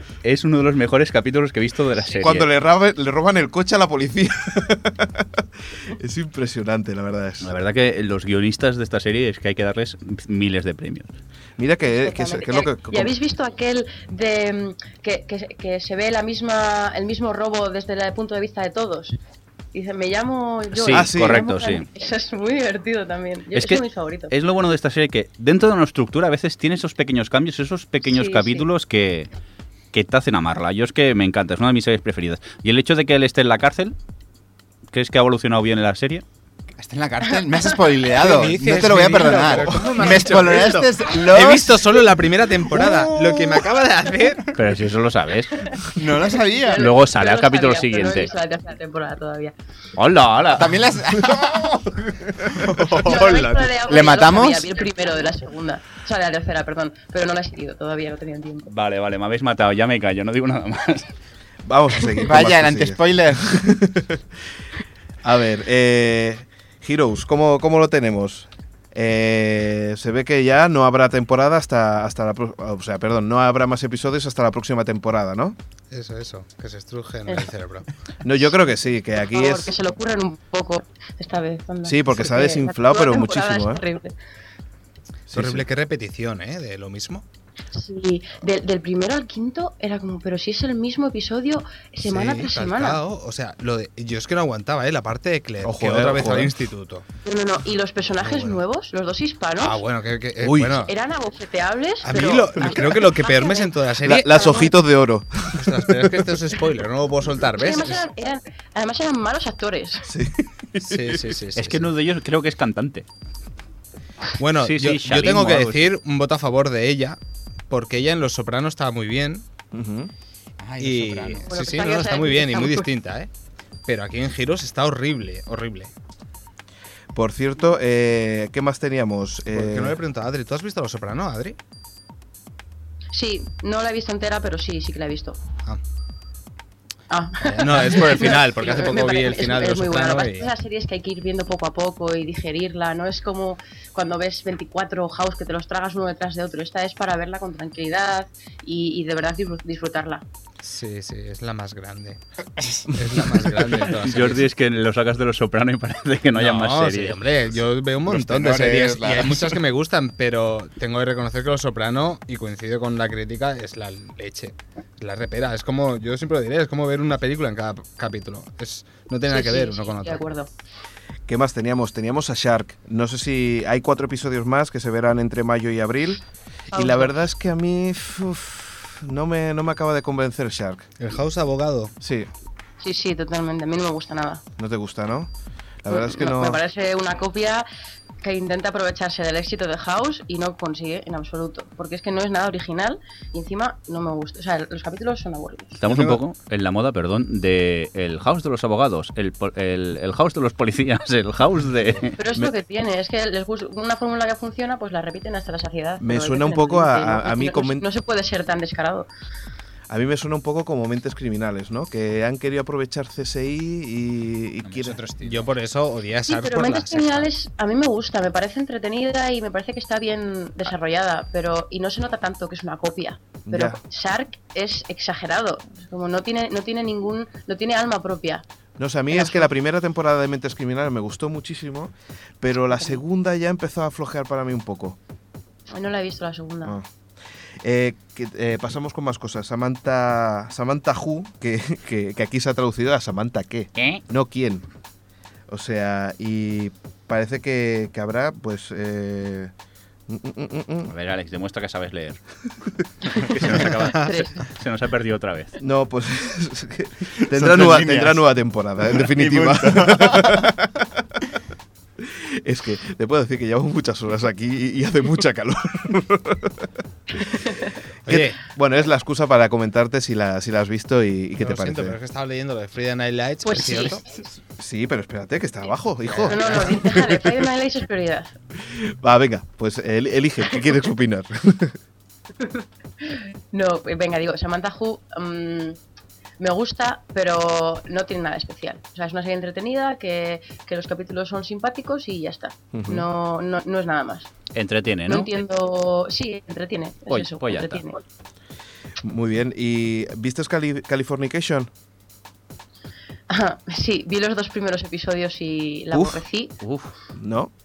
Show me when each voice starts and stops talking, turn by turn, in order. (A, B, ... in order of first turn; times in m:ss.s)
0:00.2-0:02.5 A
0:02.0-0:02.3 B
0:02.2-0:07.5 C
0:07.4-0:11.1 A
0:11.6-0:13.1 C
0:11.8-0:19.2 B
0:19.7-0:24.3 B
0:20.7-0:21.8 A
0:20.9-0:21.4 C
0:23.5-0:29.3 A
0:28.1-0:28.7 B
0:29.9-0:33.9 A
0:34.9-0:36.2 A
0:36.8-0:42.0 D
0:38.1-0:44.5 E
0:42.8-0:43.6 D
0:44.5-0:45.6 A
0:45.6-0:49.5 B
0:45.8-0:46.9 D
0:46.8-0:48.3 A
0:50.0-0:50.8 A
0:50.5-0:54.8 D
0:52.4-0:52.8 C
0:53.0-0:58.7 B
0:58.7-1:01.1 A
1:01.6-1:04.2 C
1:02.2-1:03.5 D
1:05.2-1:15.6 C
1:15.9-1:17.9 E
1:18.2-1:19.7 C
1:19.2-1:24.1 B
1:21.8-1:23.8 C
1:25.3-1:25.6 C
1:25.3-1:27.2 E
1:27.7-1:33.0 B
1:32.0-1:37.0 E
1:35.6-1:36.5 C
1:37.2-1:39.8 B
1:38.2-1:38.6 E
1:39.6-1:40.9 E
1:40.4-1:40.8 C
1:40.8-1:44.7 B
1:42.0-1:44.6 E
1:44.0-1:46.4 C
1:45.5-1:48.0 E
1:47.6-1:50.1 B
1:50.0-1:51.4 C
1:50.8-1:51.9 E
1:51.5-1:53.1 A
1:54.4-1:57.2 E
1:54.6-1:55.9 A
1:57.7-1:59.4 E
1:59.7-2:00.1 C
2:00.6-2:01.5 D
2:00.8-2:03.3 E
2:01.5-2:02.9 B
2:03.8-2:05.9 E
2:07.1-2:10.0 C
2:09.5-2:11.6 E
2:13.1-2:15.4 B
2:17.1-2:30.2 B
2:17.4-2:20.5 E
2:30.6-2:32.2 E
2:32.9-2:34.5 E
2:33.8-2:37.2 A
2:36.3-2:50.2 E
2:38.1-2:39.6 D
2:49.3-2:50.5 B
2:51.3-3:00.9 C
2:56.7-2:57.2 B
3:01.0-3:01.9 E
3:02.0-3:02.3 C
3:02.8-3:04.4 B
3:04.6-3:05.3 C
3:05.8-3:06.6 C
3:05.9-3:07.6 B
3:08.2-3:15.8 B
3:15.8-3:22.1 A
3:15.8-3:16.2 E
3:22.2-3:29.1 B
3:26.0-3:27.8 C
3:29.9-3:35.0 C
3:34.6-3:35.5 D
3:35.2-3:37.3 E
3:36.2-3:48.4 B
3:43.4-3:43.8 C
3:48.8-3:55.0 C
3:49.1-3:49.5 B
3:55.7-3:56.8 B
3:57.6-4:04.6 C
4:03.8-4:04.0 A
4:05.5-4:09.5 C
4:10.1-4:10.9 C
4:10.9-4:12.2 A
4:13.1-4:14.4 B
4:13.1-4:15.6 A
4:15.6-4:21.0 C
4:17.2-4:18.2 D
4:18.9-4:20.5 D
4:22.0-4:27.4 C
4:27.2-4:27.8 B
4:28.0-4:28.4 E
4:28.0-4:32.0 C
4:31.4-4:34.1 E
4:33.4-4:34.0 B
4:34.6-4:37.4 C
4:36.0-4:36.7 E
4:36.2-4:38.3 B
4:38.6-4:41.8 C
4:42.4-4:45.8 B
4:46.4-4:54.3 B
4:52.7-4:53.1 C
4:54.5-4:55.3 A
4:55.1-4:58.0 B
4:57.1-4:57.8 A
4:59.0-5:01.7 C
5:03.3-5:06.5 B
5:05.9-5:06.2 C
5:06.6-5:06.9 A
5:07.2-5:07.5 C